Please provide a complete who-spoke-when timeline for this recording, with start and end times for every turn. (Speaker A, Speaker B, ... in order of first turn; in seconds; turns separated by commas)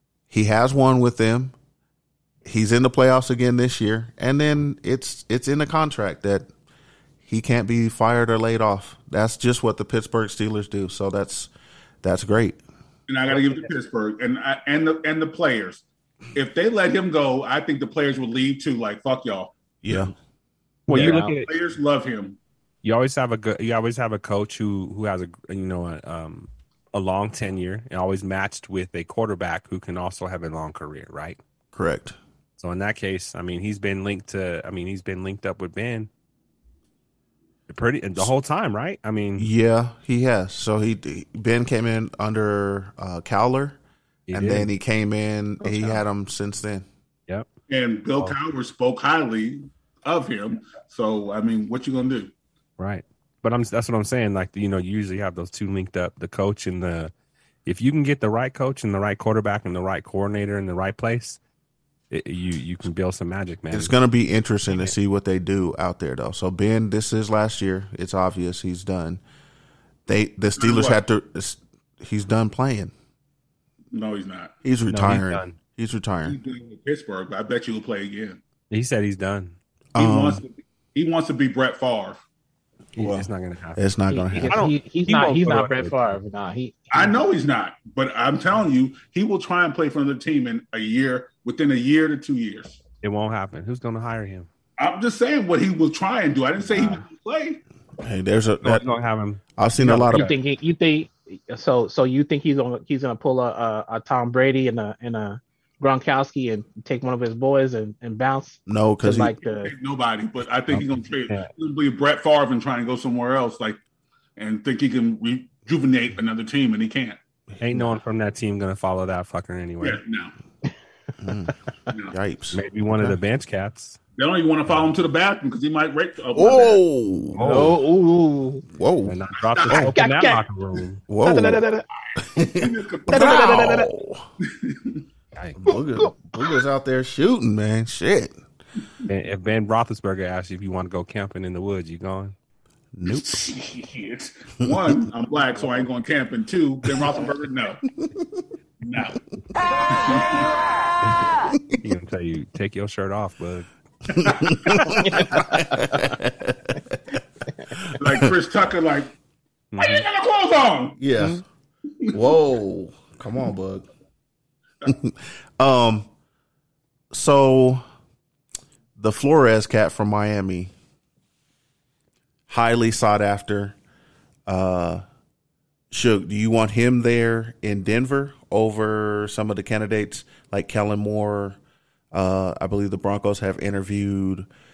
Speaker A: 0.3-1.5, Speaker A: 2.5-6.5, Speaker A: 7.3-11.5, Speaker A: 12.0-12.6, Speaker B: 13.1-20.1, Speaker A: 19.8-20.1, Speaker C: 20.9-21.5, Speaker D: 20.9-21.4, Speaker B: 21.5-22.4, Speaker C: 22.8-31.4, Speaker A: 31.7-32.2, Speaker C: 32.6-36.1, Speaker C: 37.7-39.5, Speaker A: 39.4-43.8, Speaker C: 44.3-44.7, Speaker A: 44.3-46.9, Speaker D: 45.6-45.9, Speaker B: 47.7-52.3, Speaker C: 52.8-57.1, Speaker C: 57.7-61.4, Speaker C: 62.1-63.9, Speaker A: 63.7-69.2, Speaker A: 70.1-72.9, Speaker B: 70.6-71.0, Speaker B: 73.9-74.5, Speaker A: 74.6-76.4, Speaker C: 74.9-75.6, Speaker B: 76.2-78.4, Speaker C: 78.7-79.6, Speaker A: 80.0-80.4, Speaker B: 80.0-82.2, Speaker C: 83.0-83.8, Speaker A: 83.0-84.6, Speaker D: 84.1-87.2, Speaker C: 84.4-86.0, Speaker B: 86.9-92.8, Speaker C: 93.0-94.5, Speaker B: 94.8-97.6, Speaker A: 98.0-98.8, Speaker C: 98.6-100.3, Speaker A: 99.6-100.3, Speaker D: 99.8-109.7, Speaker A: 108.7-109.3, Speaker B: 109.5-113.8, Speaker C: 110.7-111.5, Speaker B: 114.4-117.2, Speaker C: 117.6-120.0, Speaker B: 119.8-120.3, Speaker A: 121.2-121.5, Speaker A: 122.1-123.2, Speaker C: 122.5-124.0, Speaker B: 124.2-126.8, Speaker A: 126.3-127.7, Speaker C: 127.3-127.8, Speaker D: 127.4-128.6, Speaker A: 128.7-129.2, Speaker C: 129.1-131.0, Speaker B: 129.5-129.9, Speaker A: 129.7-129.9, Speaker D: 129.9-130.4, Speaker A: 131.1-131.6, Speaker D: 131.2-131.9, Speaker A: 132.2-134.3, Speaker B: 132.5-133.7, Speaker D: 133.1-133.9, Speaker B: 134.4-135.0, Speaker A: 135.6-138.4, Speaker D: 135.7-136.4, Speaker C: 139.1-142.3, Speaker A: 142.9-143.5, Speaker B: 143.1-147.8, Speaker A: 144.6-145.0, Speaker A: 148.0-148.3, Speaker B: 148.8-149.2, Speaker B: 149.9-150.5, Speaker A: 151.4-151.8, Speaker C: 151.8-153.7, Speaker B: 154.2-154.9, Speaker A: 154.2-157.0, Speaker D: 155.0-156.0, Speaker A: 157.8-158.3, Speaker B: 158.0-159.1, Speaker C: 159.7-160.1, Speaker B: 159.8-161.0, Speaker A: 161.0-161.4, Speaker A: 162.1-163.9, Speaker A: 164.8-166.1, Speaker A: 167.1-167.8, Speaker A: 169.0-170.7, Speaker A: 172.5-173.8, Speaker A: 174.5-175.0, Speaker A: 175.9-181.6, Speaker A: 182.1-184.5